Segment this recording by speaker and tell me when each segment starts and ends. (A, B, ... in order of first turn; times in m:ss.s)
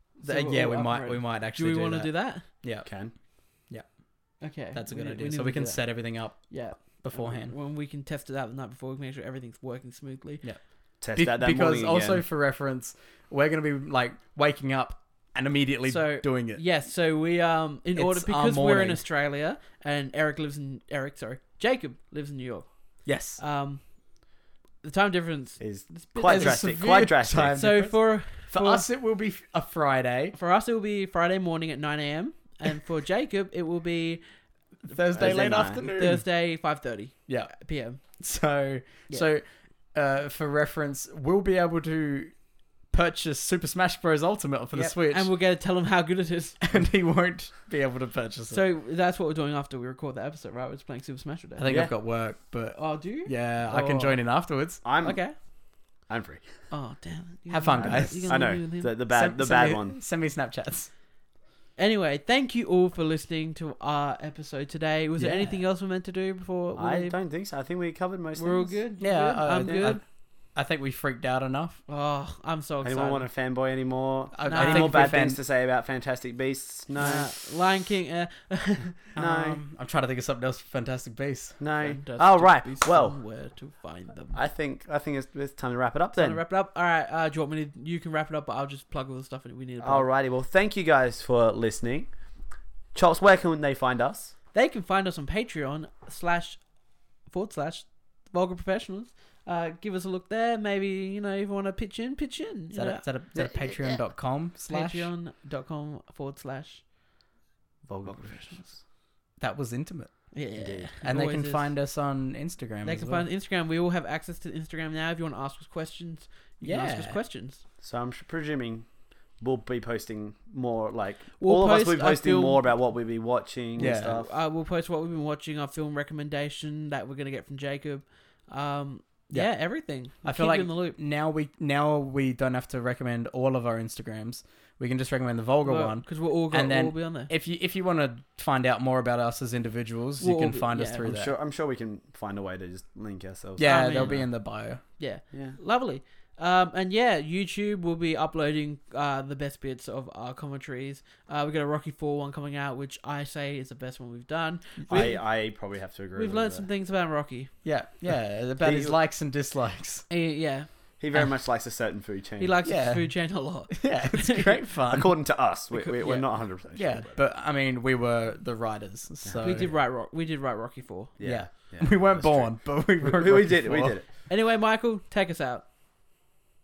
0:00.2-0:02.5 A
0:00.2-0:02.9 B
0:02.8-0:03.1 C
0:04.4-0:10.4 A
0:04.6-0:07.6 B
0:11.0-0:12.2 C
0:11.2-0:16.6 B
0:15.9-0:23.8 A
0:18.0-0:19.0 B
0:23.1-0:23.4 B
0:24.8-0:26.7 A
0:25.6-0:27.8 C
0:26.3-0:30.4 B
0:27.6-0:28.9 A
0:30.3-0:34.2 A
0:34.9-0:36.3 B
0:34.9-0:38.0 A
0:35.2-0:35.8 C
0:38.2-0:42.3 B
0:42.9-0:45.3 B
0:44.7-0:46.6 A
0:46.7-0:48.6 B
0:48.5-0:51.7 A
0:51.6-0:54.8 B
0:51.7-0:51.9 C
0:52.8-0:54.2 A
0:54.8-0:55.2 C
0:55.0-0:55.4 A
0:56.1-0:56.4 C
0:56.7-0:58.9 A
0:57.5-1:00.9 B
0:57.7-1:00.0 C
1:01.8-1:07.2 A
1:05.2-1:05.6 B
1:06.8-1:08.8 C
1:08.4-1:10.0 A
1:09.0-1:10.0 B
1:09.7-1:09.9 C
1:10.5-1:11.8 B
1:11.9-1:13.3 A
1:12.8-1:17.3 C
1:14.4-1:15.4 B
1:14.4-1:15.1 A
1:17.0-1:19.1 A
1:19.2-1:21.6 B
1:19.2-1:19.6 C
1:21.6-1:23.2 C
1:21.8-1:24.4 A
1:24.3-1:26.4 C
1:26.1-1:30.1 A
1:29.8-1:32.1 C
1:32.9-1:34.3 C
1:34.5-1:36.6 A
1:37.3-1:44.1 A
1:42.7-1:45.1 B
1:44.7-1:46.8 A
1:47.9-1:48.8 C
1:48.1-1:48.7 A
1:49.4-1:50.1 B
1:50.3-1:51.7 A
1:50.6-1:50.9 C
1:51.0-1:53.3 B
1:52.8-1:57.6 A
1:56.6-1:57.2 B
1:57.8-1:58.9 C
1:59.4-2:04.4 C
2:01.4-2:02.6 A
2:03.8-2:04.2 B
2:03.9-2:11.0 A
2:10.2-2:21.3 B
2:15.6-2:17.3 A
2:20.2-2:21.1 A
2:21.0-2:24.3 C
2:23.6-2:24.8 B
2:23.6-2:24.4 A
2:25.0-2:35.2 A
2:25.3-2:25.6 C
2:34.9-2:36.7 C
2:36.2-2:37.5 A
2:37.6-2:40.1 B
2:38.6-2:39.0 C
2:40.1-2:40.7 A
2:41.0-2:42.6 C
2:42.4-2:44.6 A
2:42.6-2:45.1 B
2:44.9-2:47.2 C
2:45.7-2:46.3 A
2:46.7-2:49.7 B
2:49.2-2:49.6 C
2:49.4-2:51.2 A
2:51.2-2:54.1 C
2:51.2-2:54.0 B
2:54.3-2:55.6 A